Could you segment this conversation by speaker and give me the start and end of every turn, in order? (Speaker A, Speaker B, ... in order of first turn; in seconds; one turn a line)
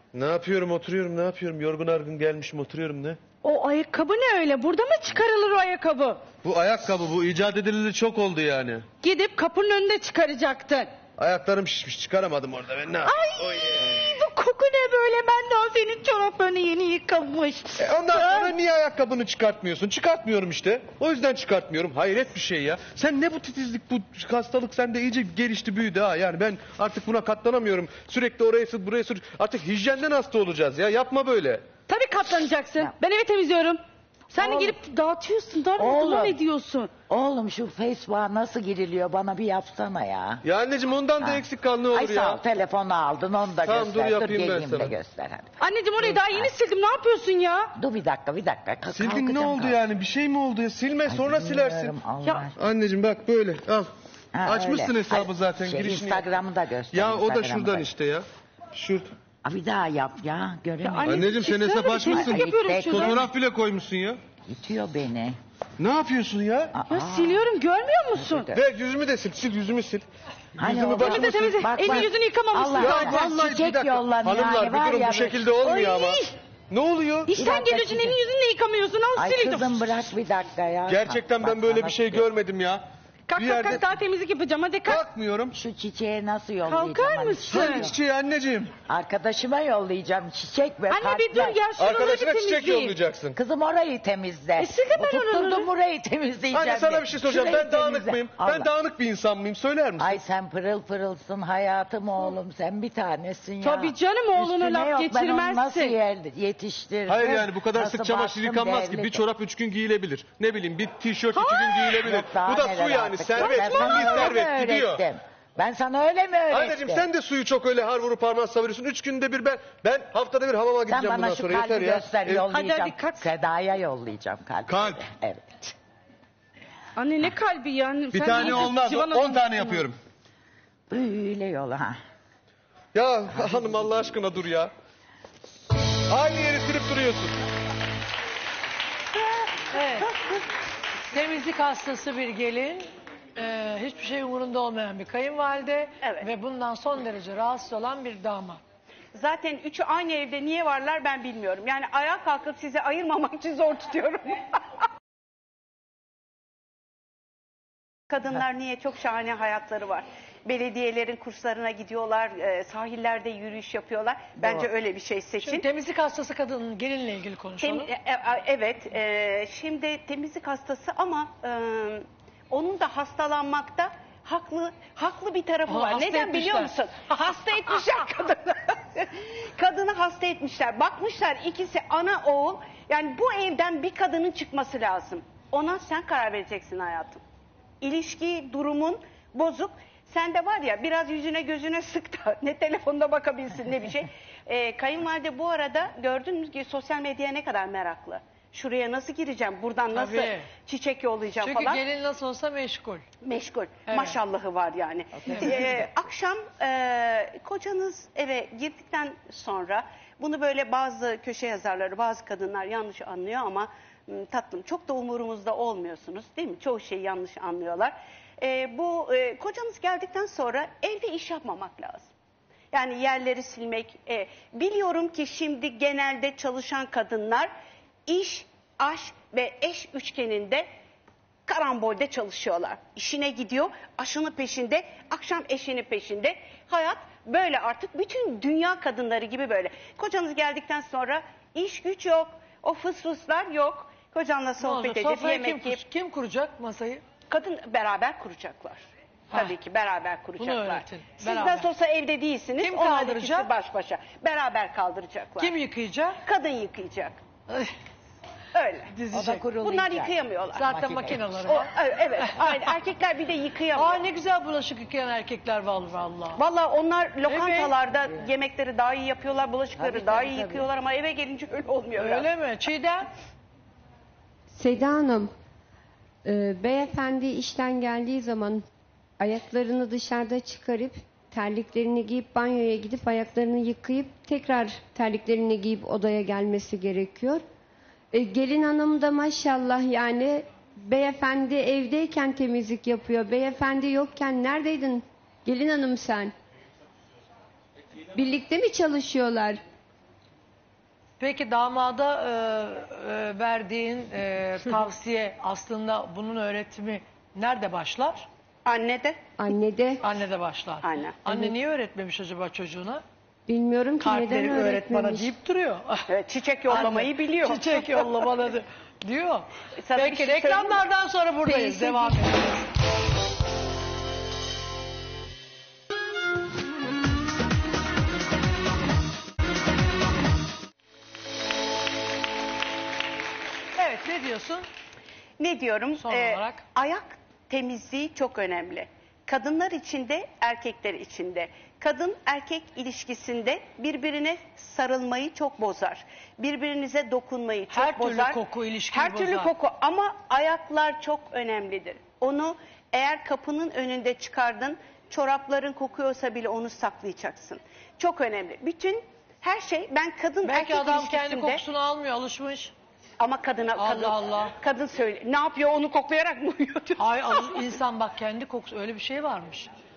Speaker A: 0.1-3.2
Speaker B: 3.4-6.2
Speaker A: 6.4-8.8
Speaker B: 9.0-10.9
Speaker A: 11.2-14.1
Speaker B: 13.1-18.5
Speaker A: 17.8-31.6
Speaker B: 31.9-36.9
Speaker C: 34.4-34.7
Speaker C: 35.8-36.4
Speaker C: 37.1-40.4
Speaker A: 40.4-42.4
Speaker C: 41.2-46.5
Speaker A: 43.6-44.9
Speaker B: 45.6-47.7
Speaker C: 47.8-49.8
Speaker A: 48.9-52.0
Speaker C: 51.0-52.5
Speaker A: 52.5-53.9
Speaker C: 54.3-57.9
Speaker A: 54.4-56.4
Speaker A: 56.9-59.1
Speaker C: 59.4-61.3
Speaker B: 60.8-63.3
Speaker A: 61.0-64.2
Speaker C: 62.1-63.2
Speaker C: 64.4-65.4
Speaker A: 65.8-66.7
Speaker C: 66.7-67.5
Speaker B: 66.9-68.5
Speaker C: 68.1-68.5
Speaker A: 68.5-70.0
Speaker C: 70.6-75.5
Speaker A: 70.6-71.3
Speaker B: 70.9-73.3
Speaker A: 72.7-77.3
Speaker B: 75.6-76.3
Speaker B: 77.3-79.8
Speaker C: 77.3-78.2
Speaker C: 79.2-82.3
Speaker A: 80.9-82.8
Speaker B: 83.3-85.0
Speaker A: 83.3-83.9
Speaker A: 84.8-85.5
Speaker C: 85.5-88.0
Speaker B: 86.6-87.9
Speaker A: 87.5-88.8
Speaker C: 88.8-91.6
Speaker B: 90.9-93.0
Speaker A: 91.7-93.4
Speaker C: 93.3-98.7
Speaker B: 94.6-95.7
Speaker A: 96.5-100.2
Speaker C: 100.0-109.2
Speaker B: 103.6-106.0
Speaker A: 107.1-115.0
Speaker B: 111.3-112.1
Speaker C: 112.1-117.0
Speaker B: 113.3-114.7
Speaker A: 116.5-122.5
Speaker C: 120.9-125.7
Speaker B: 122.5-123.3
Speaker A: 124.7-125.1
Speaker B: 127.0-129.8
Speaker A: 128.1-129.9
Speaker C: 130.9-132.0
Speaker A: 132.9-134.7
Speaker A: 136.1-137.3
Speaker D: 139.7-140.1
Speaker D: 141.1-148.6
Speaker E: 146.0-146.3
Speaker E: 149.1-154.4
Speaker E: 158.1-165.7
Speaker D: 165.4-167.9
Speaker E: 167.6-187.2
Speaker D: 175.7-177.9
Speaker E: 187.8-201.8
Speaker D: 199.9-200.5
Speaker D: 201.4-203.0
Speaker E: 203.2-222.1
Speaker D: 203.9-204.2
Speaker D: 205.3-205.6
Speaker E: 222.7-227.5
Speaker E: 228.1-230.7
Speaker E: 231.4-245.8
Speaker D: 244.6-247.0
Speaker E: 247.3-255.5
Speaker D: 249.3-249.6
Speaker D: 250.4-251.7
Speaker D: 252.6-253.5
Speaker D: 255.4-256.2
Speaker E: 256.2-257.2
Speaker E: 258.5-258.9
Speaker D: 258.9-259.5
Speaker C: 259.1-261.2
Speaker E: 259.6-260.8
Speaker D: 260.6-262.7
Speaker E: 261.4-264.0
Speaker D: 263.7-266.4
Speaker E: 266.4-272.3
Speaker D: 267.3-267.8
Speaker C: 269.7-270.7
Speaker D: 272.0-273.1
Speaker F: 274.5-275.3
Speaker F: 276.2-278.6
Speaker F: 279.2-287.4
Speaker F: 288.1-296.3
Speaker F: 298.1-299.6
Speaker D: 301.2-308.3
Speaker E: 308.6-309.2
Speaker F: 309.4-310.0
Speaker D: 310.0-313.0
Speaker E: 310.8-311.3
Speaker F: 313.5-315.3
Speaker D: 314.0-316.1
Speaker E: 316.1-318.1
Speaker D: 316.7-322.7
Speaker E: 319.8-320.8
Speaker E: 321.4-322.2
Speaker D: 333.8-334.6
Speaker E: 335.4-348.4
Speaker D: 336.0-336.6
Speaker D: 347.7-349.5
Speaker E: 348.9-361.6
Speaker D: 360.4-362.7
Speaker E: 363.2-367.6
Speaker D: 363.8-364.5
Speaker D: 367.0-369.7